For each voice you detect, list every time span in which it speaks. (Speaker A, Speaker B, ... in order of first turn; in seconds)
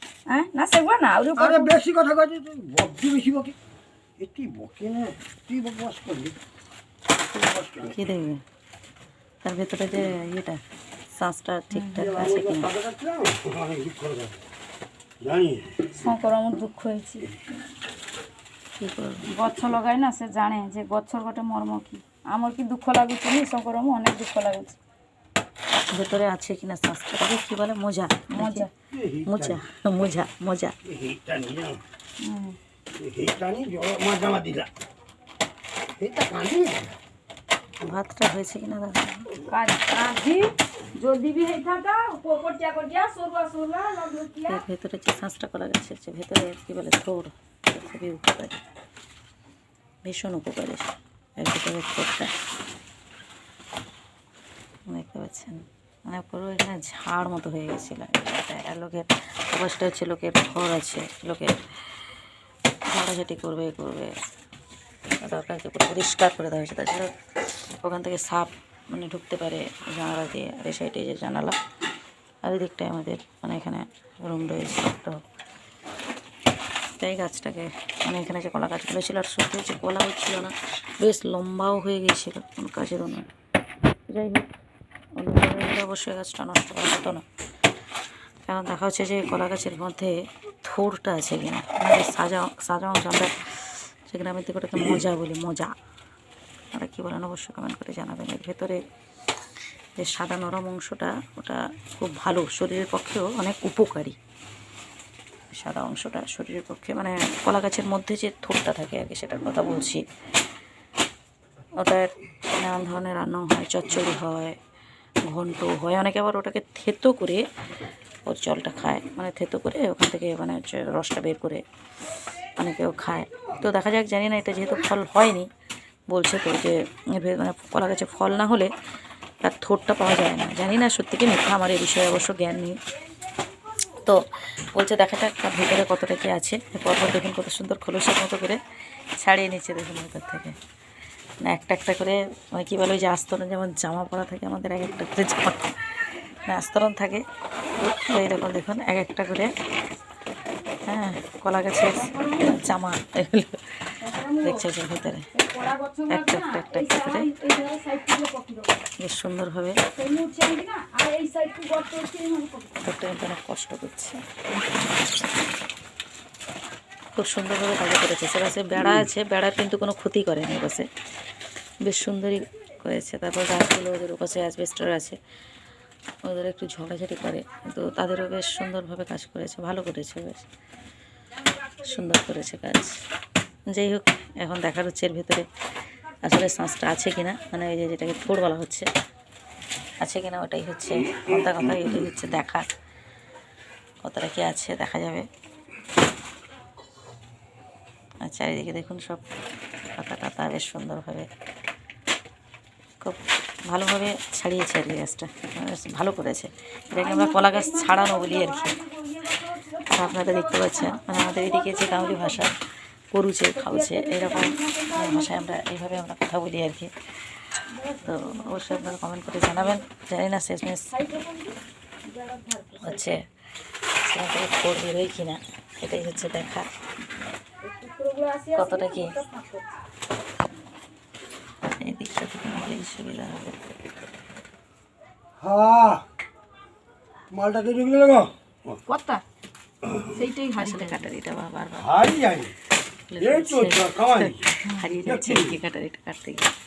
Speaker A: 0.3-1.7, 11.7-12.1, 16.0-17.4, 19.3-24.8, 28.4-28.7, 32.2-32.6, 39.4-44.6, 151.9-152.7, 154.0-154.7, 155.3-158.8, 159.9-162.8, 206.9-212.5, 213.6-215.6, 217.7-219.8, 220.9-223.1, 227.6-229.7, 238.9-239.2, 240.0-241.1, 244.7-244.9
Speaker B: 1.4-3.5, 4.2-6.4, 7.3-8.1, 12.0-14.4, 15.2-15.8, 28.9-29.6, 30.9-31.8, 33.0-34.7, 36.0-37.0, 235.4-236.1, 237.3-238.8, 241.8-242.6, 243.2-244.4, 245.0-245.6
Speaker C: 7.9-8.4, 9.4-10.6, 11.2-12.7, 18.8-19.3, 25.9-28.7, 29.3-30.8, 37.8-39.3, 44.5-48.6, 50.0-52.3, 54.9-61.5, 62.9-64.2, 65.2-71.6, 72.4-75.2, 77.0-83.3, 84.1-84.5, 85.2-87.2, 88.5-95.7, 96.7-98.8, 100.0-104.2, 105.5-110.0, 111.8-114.6, 115.3-117.4, 118.3-121.6, 122.6-125.5, 126.1-128.7, 129.4-132.8, 134.7-138.6, 139.2-140.6, 141.4-147.2, 147.8-149.5, 150.9-153.8, 154.4-155.3, 156.1-157.3, 159.0-159.8, 162.8-164.2, 167.2-170.9, 171.9-175.2, 176.3-180.5, 181.8-183.0, 183.7-185.5, 186.2-188.9, 190.0-192.7, 194.0-195.3, 198.2-199.2, 200.0-201.3, 203.0-208.7, 209.9-212.5, 213.1-220.9, 222.8-223.2, 224.1-226.7, 228.6-229.1, 231.8-233.6, 240.6-241.9, 243.1-246.5